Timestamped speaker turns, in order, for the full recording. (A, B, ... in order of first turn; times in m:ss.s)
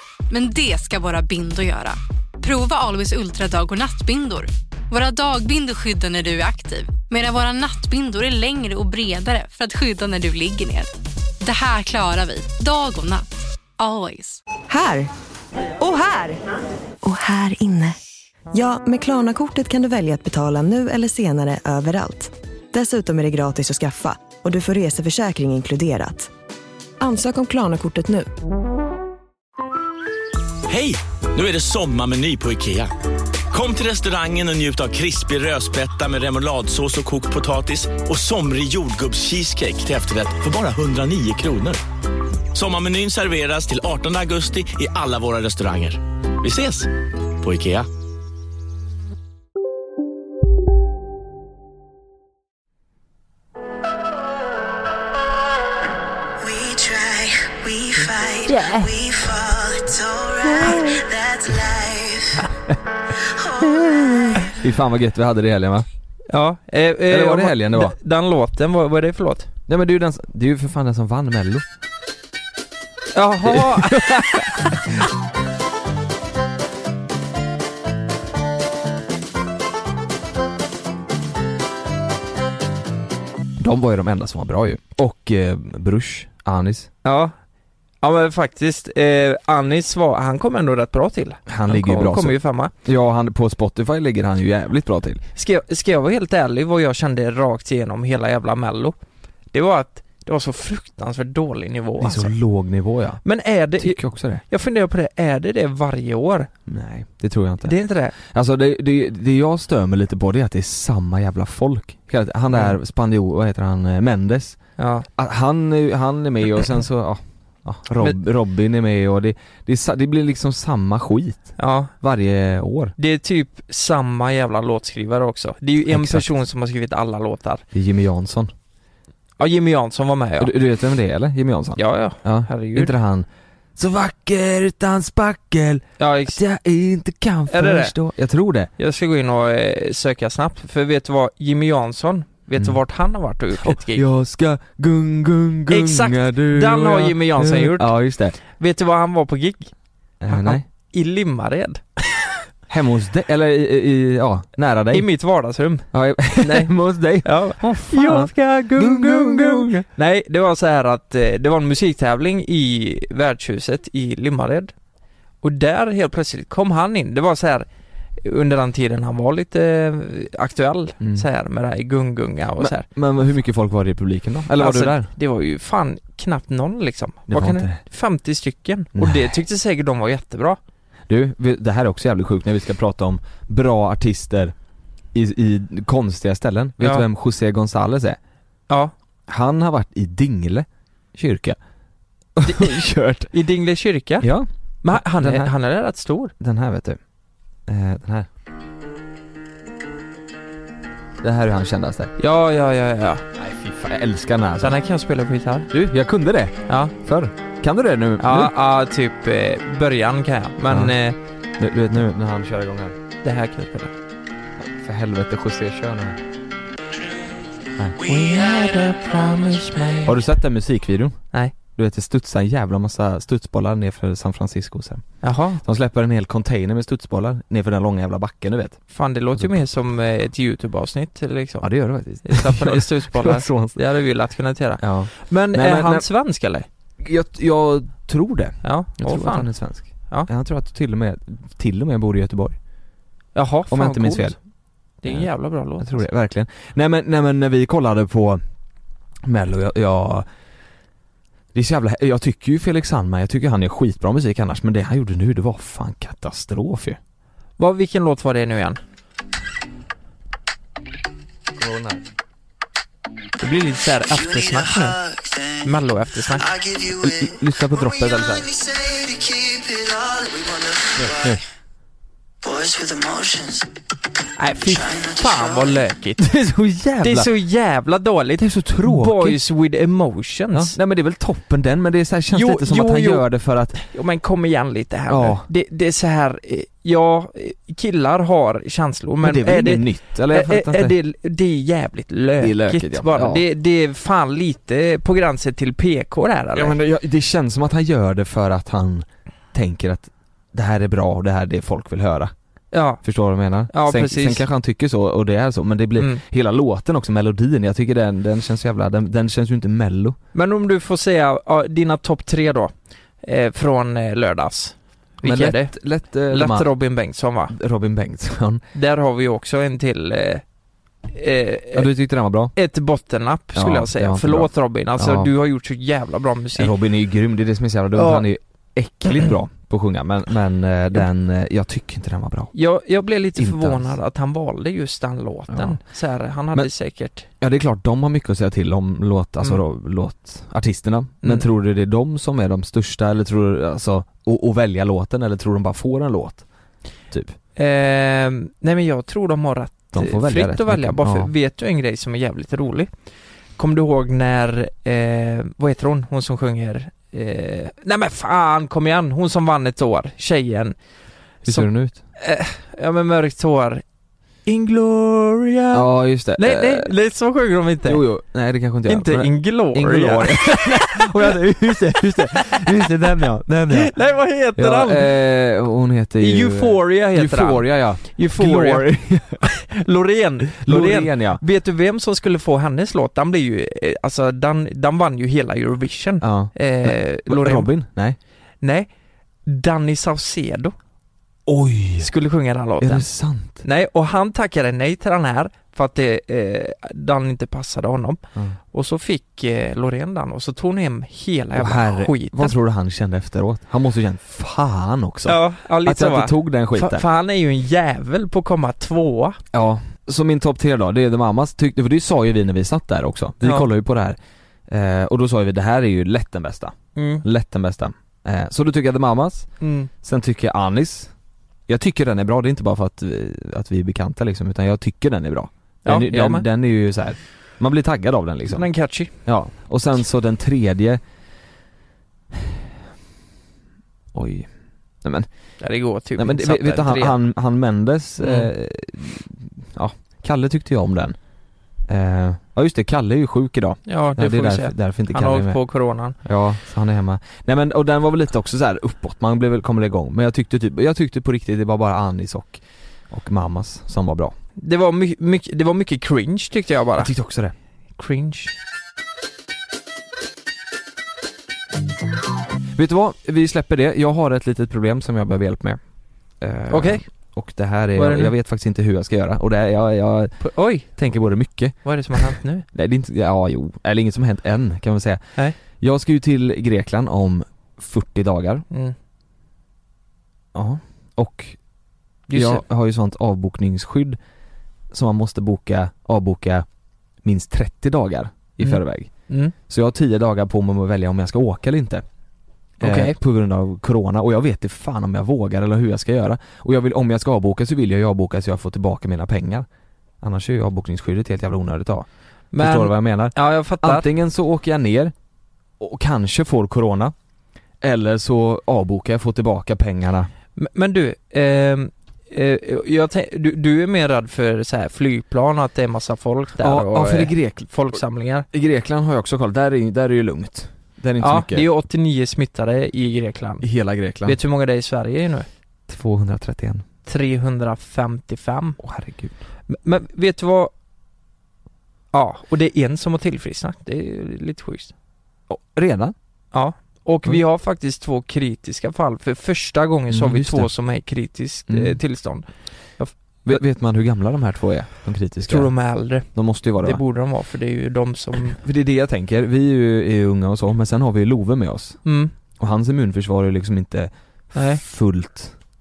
0:00.3-0:10.9 A
0:11.4-0:13.2 A
0:13.8-0:14.4 A
0:14.7-0:15.1 B
0:15.8-0:16.4 B
0:17.0-0:18.0 B
0:18.5-0:26.3 B
0:27.0-0:28.3 B
0:30.7-0:32.9 C
0:33.5-0:41.8 C
0:42.5-0:46.9 C
0:47.4-0:47.9 C
0:56.4-1:02.4 D
1:03.4-1:04.3 D
1:04.5-1:05.8 E
1:06.3-1:09.5 F
1:07.1-1:08.0 E
1:09.7-1:11.6 E
1:13.1-1:14.8 F
1:13.4-1:15.0 E
1:23.6-1:26.9 E
1:27.0-1:27.3 F
1:28.0-1:32.7 F
1:31.5-1:35.2 E
1:35.4-1:39.0 F
1:39.5-1:42.3 F
1:42.0-1:43.2 E
1:43.2-1:46.5 F
1:43.8-1:44.4 E
1:46.7-1:54.6 E
1:47.6-1:48.1 F
1:54.8-1:55.1 F
1:55.1-2:02.9 E
2:01.6-2:01.9 F
2:03.0-2:07.6 F
2:05.9-2:06.2 E
2:07.7-2:08.5 E
2:09.4-2:10.5 F
2:10.4-2:18.7 E
2:11.8-2:12.9 F
2:16.0-2:16.4 F
2:17.5-2:17.9 F
2:18.8-2:24.0 F
2:23.6-2:28.4 E
2:25.7-2:29.7 F
2:30.2-2:30.6 E
2:30.3-2:32.3 F
2:32.7-2:35.1 E
2:34.9-2:35.9 F
2:35.9-2:39.8 E
2:36.4-2:44.7 F
2:45.4-2:47.7 F
2:48.2-2:52.9 F
2:51.0-2:51.2 E
2:52.6-2:55.1 E
2:54.6-3:00.6 F
2:57.3-2:57.8 E
2:58.9-2:59.4 E
3:01.1-3:04.5 E
3:05.1-3:08.2 E
3:06.8-3:07.0 F
3:09.3-3:11.6 E
3:12.4-3:13.3 E
3:12.4-3:12.8 F
3:13.3-3:14.3 F
3:14.2-3:15.5 E
3:14.8-3:16.3 F
3:16.4-3:17.0 E
3:17.7-3:18.3 E
3:21.2-3:22.1 E
3:22.2-3:23.2 F
3:23.4-3:24.8 E
3:24.6-3:25.7 F
3:25.7-3:28.5 E
3:26.7-3:26.9 F
3:28.2-3:31.2 F
3:30.7-3:31.0 E
3:31.6-3:33.0 E
3:33.2-3:33.9 F
3:34.6-3:36.2 E
3:38.0-3:40.2 F
3:38.1-3:38.6 D
3:40.0-3:45.0 E
3:45.2-3:45.6 F
3:45.6-3:48.8 E
3:48.9-3:51.7 F
3:51.6-3:53.8 E
3:52.2-3:56.7 F
3:54.8-3:56.1 E
3:57.0-4:02.6 E
3:58.6-3:59.5 F
4:03.3-4:04.3 F
4:03.7-4:04.4 E
4:05.0-4:06.0 F
4:05.0-4:08.4 E
4:09.2-4:10.3 E
4:11.5-4:17.0 E
4:17.6-4:18.8 F
4:21.6-4:22.0 E
4:23.4-4:25.0 F
4:24.1-4:25.3 D
4:25.6-4:26.5 F
4:26.4-4:31.3 D
4:27.0-4:28.5 E
4:31.0-4:31.4 E
4:32.4-4:33.7 D
4:34.4-4:36.2 F
4:34.7-4:35.7 D
4:36.2-4:37.3 E
4:37.0-4:40.8 F
4:38.4-4:39.4 E
4:40.5-4:43.8 E
4:42.3-4:43.2 F
4:43.8-4:56.8 F
4:45.1-4:45.4 E
4:49.2-4:51.0 E
4:52.4-4:53.4 E
4:56.5-5:02.3 E
5:02.7-5:03.0 F
5:03.0-5:10.2 E
5:03.7-5:04.4 F
5:10.3-5:15.7 F
5:15.2-5:16.7 E
5:16.3-5:17.5 F
5:17.5-5:18.6 E
5:18.7-5:20.4 F
5:21.1-5:21.9 F
5:21.7-5:22.5 E
5:22.5-5:26.7 F
5:23.5-5:25.3 E
5:26.5-5:32.5 E
5:27.9-5:28.3 F
5:32.5-5:37.3 F
5:33.3-5:34.0 E
5:35.5-5:35.8 E
5:37.4-5:46.4 E
5:47.6-5:52.9 F
5:49.9-5:51.3 E
5:53.6-6:00.8 F
6:01.4-6:02.0 E
6:01.4-6:03.8 F
6:04.4-6:08.0 F
6:05.7-6:06.9 E
6:07.8-6:13.9 E
6:08.9-6:11.4 F
6:13.7-6:15.1 F
6:14.6-6:19.4 E
6:16.2-6:18.9 F
6:19.4-6:27.7 F
6:20.6-6:21.4 E
6:26.2-6:28.2 E
6:28.6-6:28.9 F
6:29.4-6:30.7 F
6:31.4-6:32.1 E
6:32.0-6:33.1 F
6:32.8-6:33.6 E
6:33.6-6:42.5 F
6:41.6-6:47.0 E
6:45.2-6:49.4 F
6:49.5-6:54.2 E
6:53.4-6:53.7 F
6:54.7-6:59.5 E
6:57.0-6:57.2 F
6:59.6-6:59.9 F
7:00.0-7:01.1 E
7:01.7-7:08.7 E
7:05.8-7:06.4 F
7:08.5-7:09.1 F
7:09.2-7:11.0 E
7:12.3-7:12.6 E
7:14.1-7:14.5 E
7:15.0-7:15.3 E
7:15.6-7:17.2 F
7:16.2-7:21.2 E
7:18.2-7:18.5 F
7:21.9-7:25.6 E
7:23.9-7:26.2 F
7:26.2-7:34.3 E
7:34.6-7:37.1 F
7:37.0-7:37.5 E
7:38.0-7:38.5 F
7:42.7-7:45.8 E
7:46.4-7:58.6 E
7:46.7-7:47.0 F
7:47.9-7:48.3 F
7:50.4-7:50.9 F
7:51.8-7:52.6 F
8:00.5-8:01.6 E
8:02.3-8:02.6 F
8:02.3-8:04.2 E
8:04.9-8:06.6 E
8:07.2-8:09.1 E
8:08.6-8:09.5 F
8:09.7-8:12.0 E
8:12.8-8:19.6 E
8:12.8-8:13.2 F
8:20.2-8:22.1 E
8:22.5-8:24.1 F
8:22.6-8:25.1 E
8:25.8-8:27.1 E
8:27.8-8:30.3 E
8:30.6-8:38.5 F
8:36.6-8:38.0 E
8:38.5-8:41.7 E
8:41.2-8:43.6 F
8:43.6-8:44.4 E
8:44.2-8:45.5 F
8:45.9-8:46.8 E
8:47.0-8:48.8 F
8:48.8-8:49.3 E
8:49.7-8:50.7 F
8:52.1-8:54.9 F
8:55.5-8:56.1 E
8:56.5-9:02.4 F
9:00.1-9:00.7 E
9:01.7-9:02.0 E
9:03.0-9:03.6 F
9:03.4-9:05.7 E
9:05.5-9:08.6 F
9:06.2-9:07.0 E
9:08.4-9:12.0 E
9:12.0-9:12.3 F
9:12.6-9:15.6 E
9:14.5-9:14.8 F